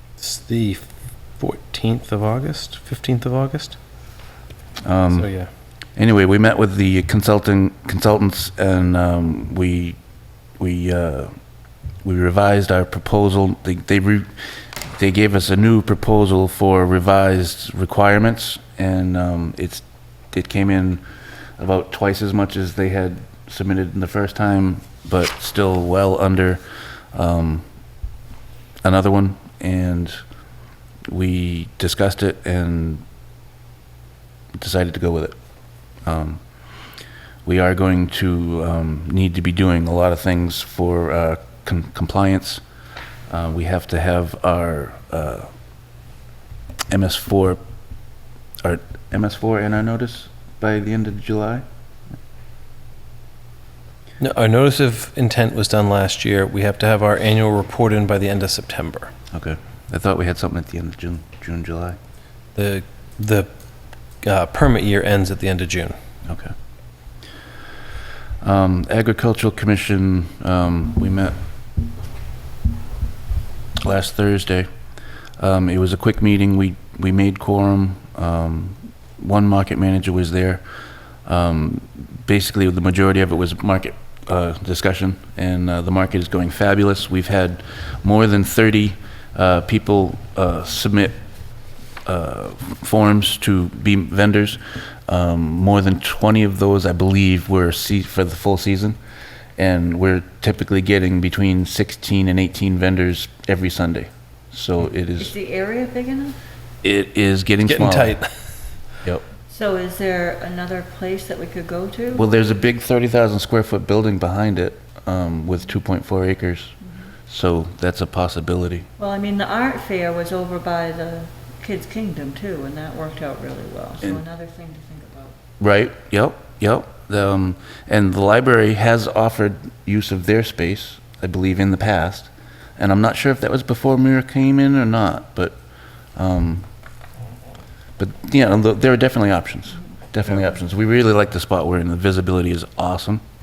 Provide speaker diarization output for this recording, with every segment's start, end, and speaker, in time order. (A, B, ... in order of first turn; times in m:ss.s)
0:00.2-0:03.8 A
0:04.8-0:05.3 B
0:05.2-0:05.5 A
0:06.0-0:10.0 B
0:10.6-0:11.3 B
0:12.0-0:21.0 B
0:21.6-0:26.6 B
0:27.1-0:27.7 B
0:28.8-0:30.2 B
0:31.1-0:33.0 B
0:34.6-0:35.4 B
0:36.0-0:36.4 B
0:37.4-0:42.6 B
0:43.3-0:45.5 B
0:46.9-0:47.6 B
0:48.6-0:51.6 B
0:54.2-0:59.1 A
0:59.3-1:02.0 B
1:02.6-1:03.5 A
1:04.2-1:06.0 A
1:06.3-1:06.5 B
1:08.4-1:11.4 B
1:13.8-1:14.7 B
1:15.4-1:20.6 B
1:21.3-1:31.2 B
1:32.1-1:39.0 B
1:39.6-1:45.3 B
1:45.2-1:46.4 C
1:46.8-1:48.2 B
1:47.6-1:48.4 A
1:49.5-1:52.3 C
1:52.2-1:56.7 B
1:57.3-1:58.9 B
1:59.0-2:05.4 C
2:05.6-2:15.6 B
2:16.2-2:16.7 B
2:18.0-2:23.2 B